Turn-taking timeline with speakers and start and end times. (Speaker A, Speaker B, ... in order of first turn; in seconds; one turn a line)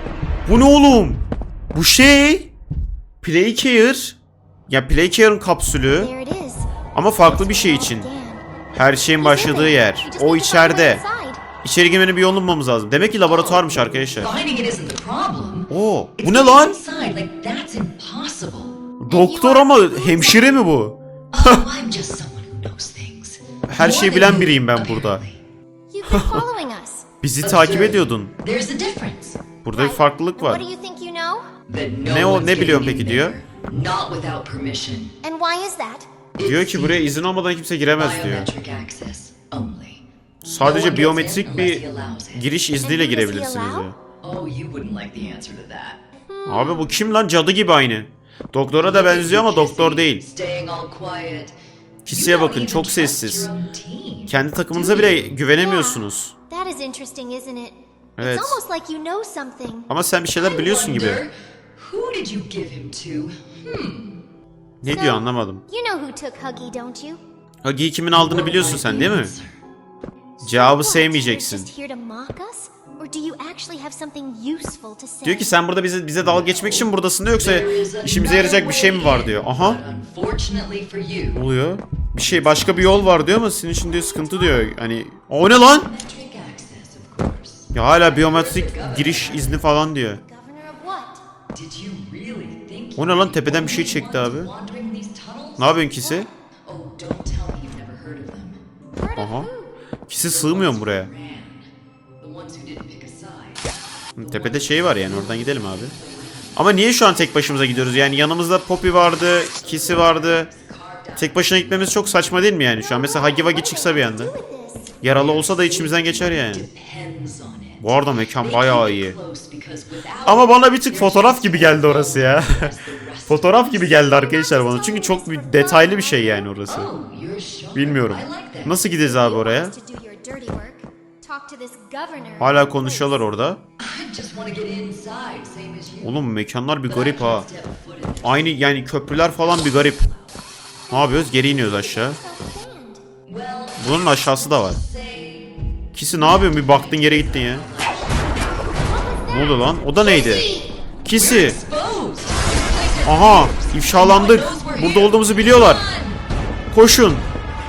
Speaker A: 0.5-2.5
Speaker A: 3.2-4.2
Speaker A: 4.7-6.1
Speaker B: 5.9-6.7
Speaker A: 6.9-8.1
Speaker B: 7.2-11.4
Speaker A: 8.7-11.0
Speaker A: 11.6-14.3
Speaker C: 14.2-18.8
Speaker A: 15.7-16.8
Speaker A: 19.0-21.7
Speaker B: 19.1-20.6
Speaker C: 21.3-25.4
Speaker A: 23.7-25.2
Speaker B: 25.9-27.1
Speaker A: 26.1-26.4
Speaker A: 27.2-28.3
Speaker C: 27.4-29.5
Speaker A: 29.6-30.6
Speaker B: 29.7-31.5
Speaker C: 31.7-35.1
Speaker A: 32.0-33.4
Speaker B: 35.2-36.1
Speaker C: 36.4-37.1
Speaker A: 36.4-38.5
Speaker C: 38.0-40.0
Speaker A: 40.4-44.0
Speaker C: 40.6-42.5
Speaker B: 42.8-43.9
Speaker C: 44.2-46.0
Speaker B: 46.3-46.9
Speaker A: 46.4-50.2
Speaker C: 48.8-51.6
Speaker A: 52.0-53.5
Speaker C: 52.1-55.2
Speaker A: 54.3-56.3
Speaker B: 55.4-59.9
Speaker A: 58.2-58.6
Speaker A: 59.9-61.2
Speaker C: 60.4-64.2
Speaker A: 64.8-65.6
Speaker B: 64.9-67.2
Speaker A: 67.6-69.3
Speaker C: 68.3-69.6
Speaker A: 70.4-71.7
Speaker B: 70.5-75.5
Speaker A: 75.2-79.8
Speaker C: 76.2-81.4
Speaker A: 81.3-85.9
Speaker B: 82.5-83.2
Speaker B: 83.8-84.9
Speaker C: 85.6-89.4
Speaker A: 87.7-90.2
Speaker B: 89.4-91.2
Speaker C: 91.5-95.9
Speaker A: 93.0-94.5
Speaker A: 95.6-96.3
Speaker C: 96.7-98.6
Speaker B: 99.0-99.8
Speaker A: 99.2-99.5
Speaker A: 100.1-101.1
Speaker C: 100.2-103.7
Speaker A: 104.2-106.0
Speaker C: 105.0-106.5
Speaker A: 106.6-110.5
Speaker C: 109.6-111.8
Speaker A: 111.2-114.3
Speaker B: 112.8-115.0
Speaker A: 115.0-116.7
Speaker C: 115.1-117.9
Speaker A: 117.8-119.2
Speaker C: 118.4-124.0
Speaker A: 120.2-122.8
Speaker A: 123.3-126.9
Speaker B: 123.6-126.6
Speaker C: 126.7-128.8
Speaker A: 127.8-129.7
Speaker B: 128.9-133.3
Speaker A: 132.4-133.6
Speaker C: 133.8-136.1
Speaker A: 136.0-137.5
Speaker C: 136.9-138.5
Speaker A: 138.2-140.1
Speaker A: 140.9-142.2
Speaker B: 140.9-143.0
Speaker C: 143.2-145.6
Speaker A: 143.8-144.8
Speaker A: 145.9-147.7
Speaker C: 146.2-148.1
Speaker B: 148.8-150.7
Speaker A: 149.3-150.5
Speaker C: 150.1-156.2
Speaker A: 151.0-151.6
Speaker A: 153.0-155.8
Speaker A: 156.7-157.2